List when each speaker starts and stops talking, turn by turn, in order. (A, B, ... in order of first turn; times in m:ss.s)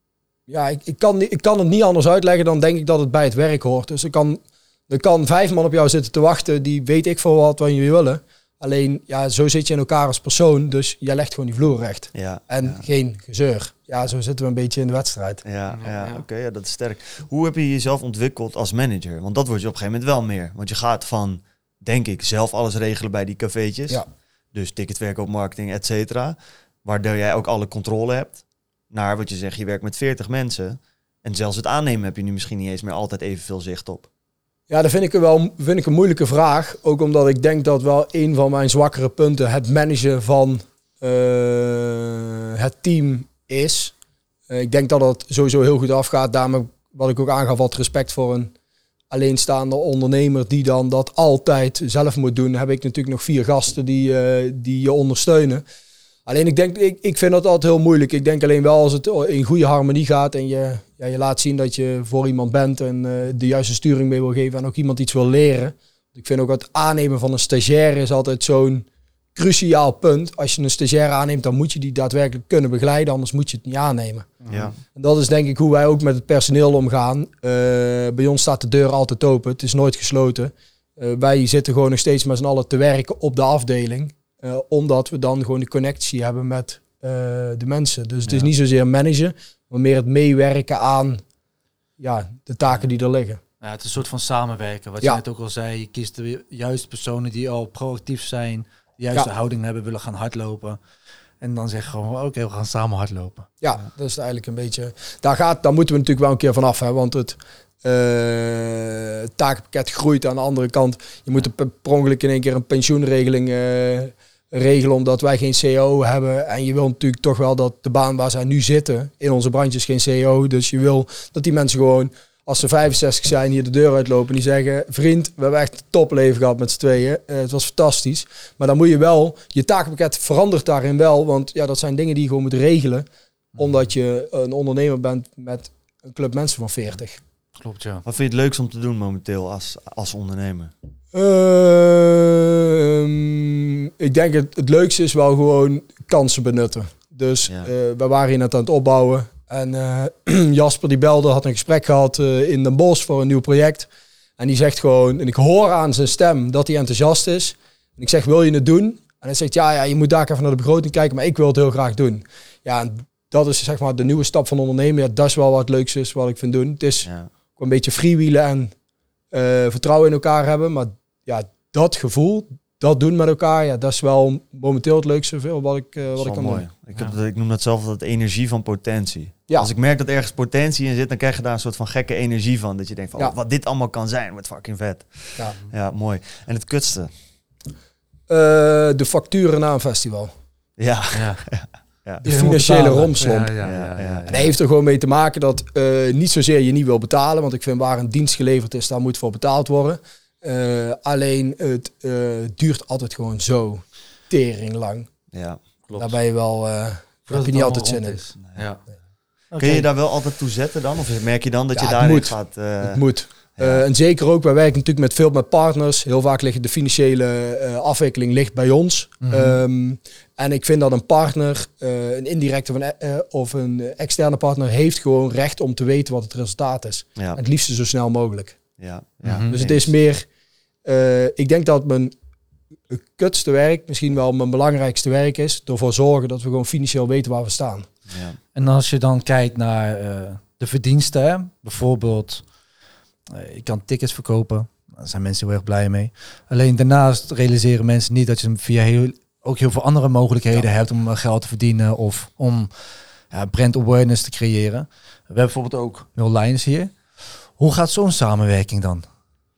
0:00.5-0:15.4 A
0:12.1-0:12.8 B
0:15.4-0:24.0 B
0:15.7-0:16.2 C
0:24.5-0:34.0 B
0:34.7-0:43.9 A
0:44.5-0:48.5 A
0:49.1-0:55.6 A
0:56.2-1:14.3 A
1:14.4-1:14.7 C
1:14.5-1:14.7 B
1:14.9-1:31.2 A
1:32.0-1:33.4 A
1:33.6-1:40.8 C
1:41.4-1:43.5 C
1:43.6-2:13.0 A
2:13.6-2:17.2 A
2:17.6-2:18.0 C
2:18.0-2:20.7 B
2:21.1-2:48.7 A
2:49.3-2:56.6 A
2:56.2-3:07.1 B
3:08.3-3:10.3 A
3:10.8-3:12.2 B
3:11.1-3:11.4 C
3:12.2-3:13.5 A
3:12.2-3:14.5 C
3:13.6-3:14.3 B
3:14.3-3:25.1 A
3:25.3-3:25.6 B
3:25.9-3:26.2 C
3:25.9-3:28.2 A
3:27.3-3:28.8 C
3:29.5-3:29.9 C
3:29.6-3:33.8 B
3:31.8-3:48.6 A
3:39.2-3:39.6 C
3:48.8-3:49.9 B
3:49.2-3:49.6 C
3:49.5-3:50.2 A
3:50.8-3:52.1 A
3:52.9-3:57.9 A
3:58.1-3:58.4 B
3:58.5-4:02.4 C
4:03.3-4:12.7 C
4:13.3-4:16.9 C
4:17.6-4:19.0 C